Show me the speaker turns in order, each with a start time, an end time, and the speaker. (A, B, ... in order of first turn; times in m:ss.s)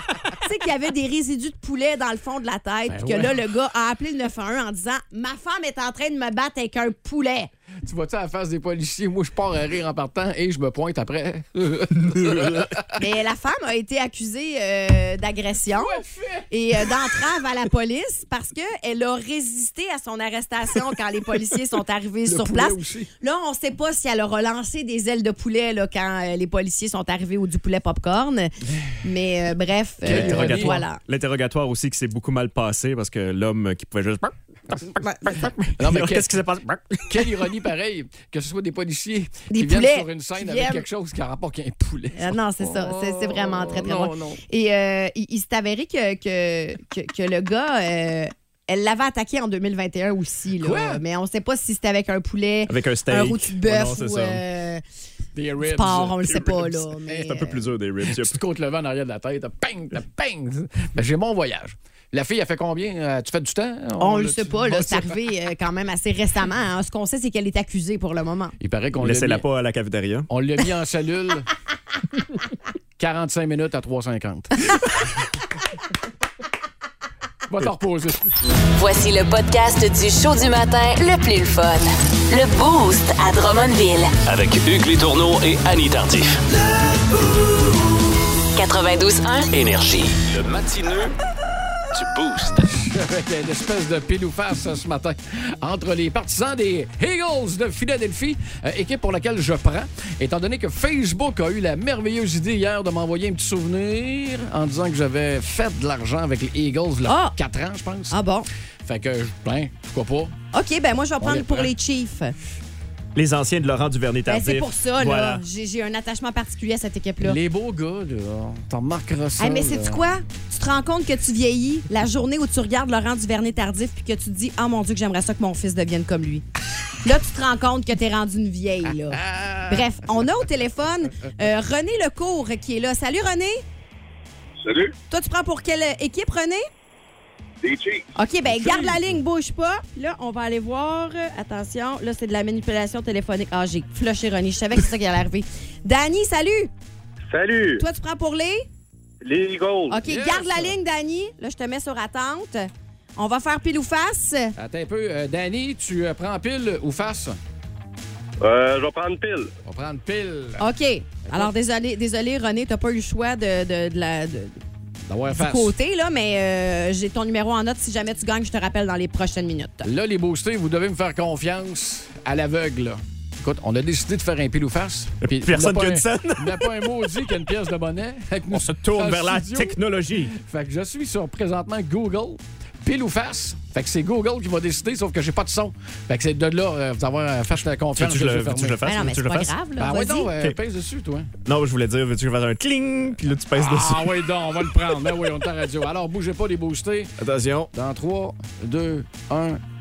0:00.3-0:07.5 A
0:02.9-0:03.3 B
0:07.8-0:12.8 B
0:12.1-0:12.4 C
0:13.0-0:31.0 A
0:15.7-0:16.5 B
0:22.2-0:23.1 B
0:30.0-0:34.3 C
0:30.0-0:30.8 B
0:35.0-0:35.6 A
0:35.3-0:37.0 C
0:35.8-0:44.4 B
0:39.5-0:40.8 A
0:42.2-0:54.8 A
0:50.6-0:51.0 B
0:52.7-0:54.4 C
0:55.3-0:56.9 B
0:55.6-0:57.6 A
0:57.1-0:58.4 C
0:58.0-1:05.1 B
1:04.0-1:08.5 A
1:08.6-1:09.4 B
1:09.0-1:10.3 C
1:10.3-1:11.5 B
1:13.0-1:14.8 B
1:17.5-1:18.2 B
1:18.8-1:24.1 D
1:24.2-1:26.4 E
1:28.6-1:29.5 D
1:29.5-1:31.1 E
1:31.9-1:32.7 E
1:32.6-1:48.2 B
1:47.0-1:47.4 A
1:48.1-1:48.5 A
1:48.8-1:50.3 B
1:50.5-1:52.3 A
1:51.2-1:51.7 B
1:53.1-1:55.4 C
1:54.3-1:57.4 A
1:57.2-2:00.0 B
1:59.4-2:06.4 A
2:07.0-2:13.6 A
2:09.1-2:09.9 B
2:14.6-2:14.9 F
2:15.1-2:16.6 A
2:17.6-2:18.0 F
2:18.2-2:26.7 A
2:18.5-2:19.0 B
2:27.3-2:27.8 F
2:27.8-2:28.6 A
2:29.2-2:30.0 F
2:29.9-2:34.5 A
2:30.0-2:30.8 B
2:34.6-2:37.4 B
2:38.4-2:39.5 F
2:39.6-2:40.6 B
2:40.6-2:44.6 A
2:41.2-2:41.5 B
2:45.1-2:45.7 B
2:45.3-2:49.9 A
2:49.8-3:08.8 B
2:55.2-2:56.7 C
2:58.5-3:00.3 C
3:08.0-3:09.5 C
3:08.8-3:10.3 A
3:09.8-3:11.3 B
3:11.4-3:14.2 C
3:13.5-3:17.1 B
3:17.2-3:17.7 C
3:17.7-3:19.6 B